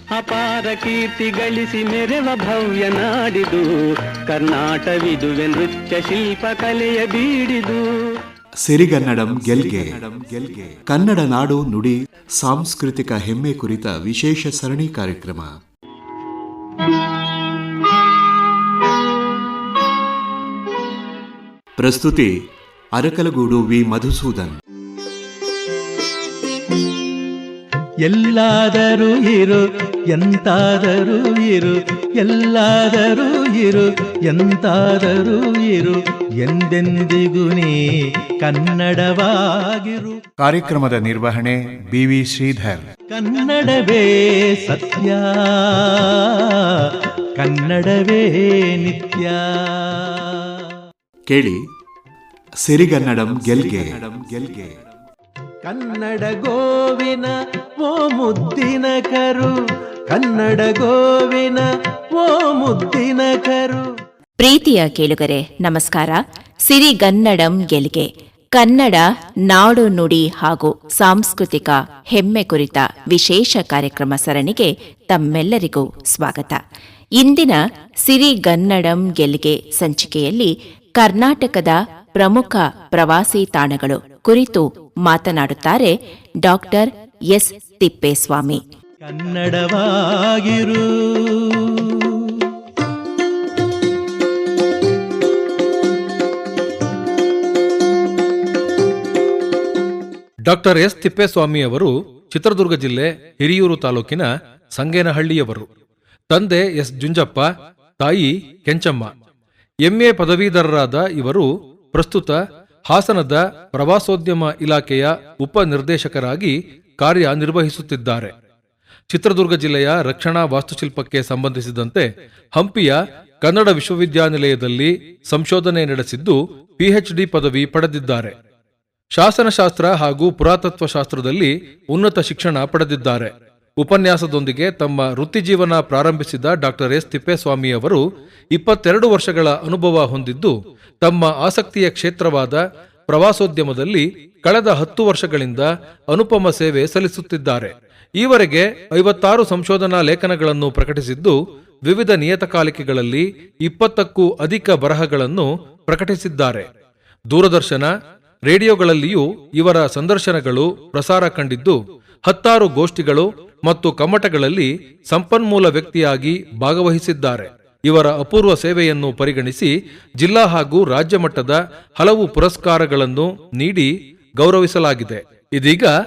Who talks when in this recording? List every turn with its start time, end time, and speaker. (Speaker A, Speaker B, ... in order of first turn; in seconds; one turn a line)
Speaker A: 0.1-3.7
Speaker A: 4.3-7.9
Speaker B: 8.6-15.5
Speaker B: 21.8-22.3
Speaker B: 22.9-24.6
Speaker C: 28.0-37.8
Speaker C: 38.4-40.2
Speaker D: 40.4-42.8
Speaker C: 43.1-46.4
Speaker C: 47.4-50.3
Speaker B: 51.3-51.6
Speaker B: 52.6-54.8
Speaker C: 55.6-57.3
Speaker C: 57.8-59.5
Speaker C: 60.1-61.6
Speaker C: 62.1-63.8
Speaker E: 64.4-76.6
Speaker E: 77.2-88.6
Speaker C: 89.0-92.1
Speaker F: 100.5-105.7
Speaker F: 106.3-107.5
Speaker F: 108.0-109.1
Speaker F: 109.8-112.4
Speaker F: 112.9-118.3
Speaker F: 119.1-128.3
Speaker F: 129.1-138.0
Speaker F: 138.5-151.3
Speaker F: 151.8-156.7
Speaker F: 157.3-157.9
Speaker F: 158.4-175.9